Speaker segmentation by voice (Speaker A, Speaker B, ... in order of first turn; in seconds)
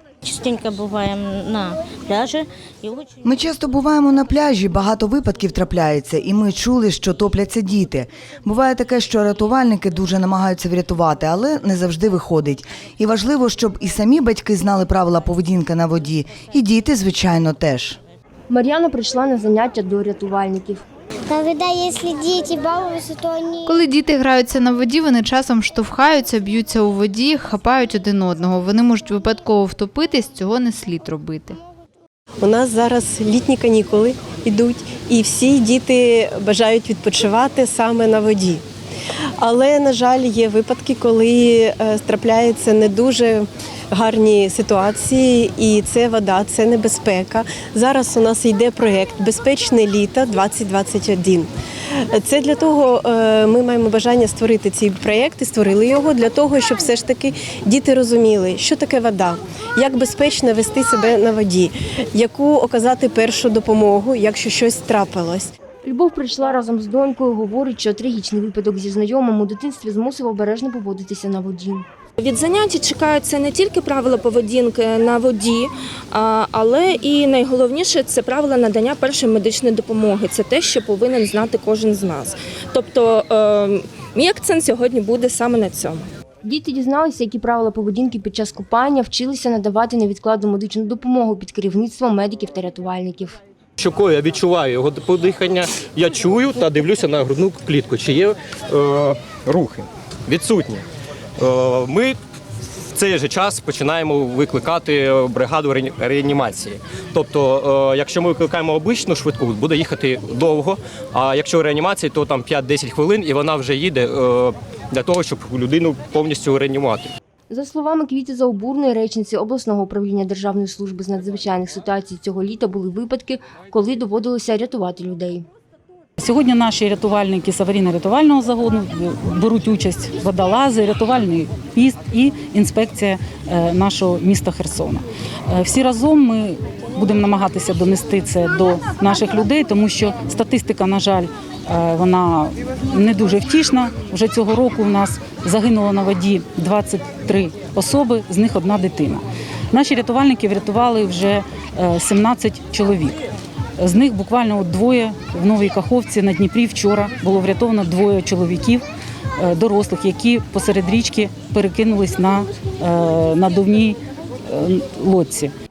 Speaker A: 0.2-3.1
Speaker B: 3.2-18.0
Speaker C: 18.5-20.8, 65.8-71.8, 86.4-93.4, 117.5-125.5
Speaker D: 21.3-23.8
Speaker E: 23.7-31.6
Speaker F: 32.4-38.6, 39.4-51.5, 52.1-65.5
Speaker G: 72.2-86.1
Speaker H: 93.8-100.8, 101.4-102.2, 103.0-117.1
Speaker I: 126.2-153.2, 153.8-158.8, 159.4-165.5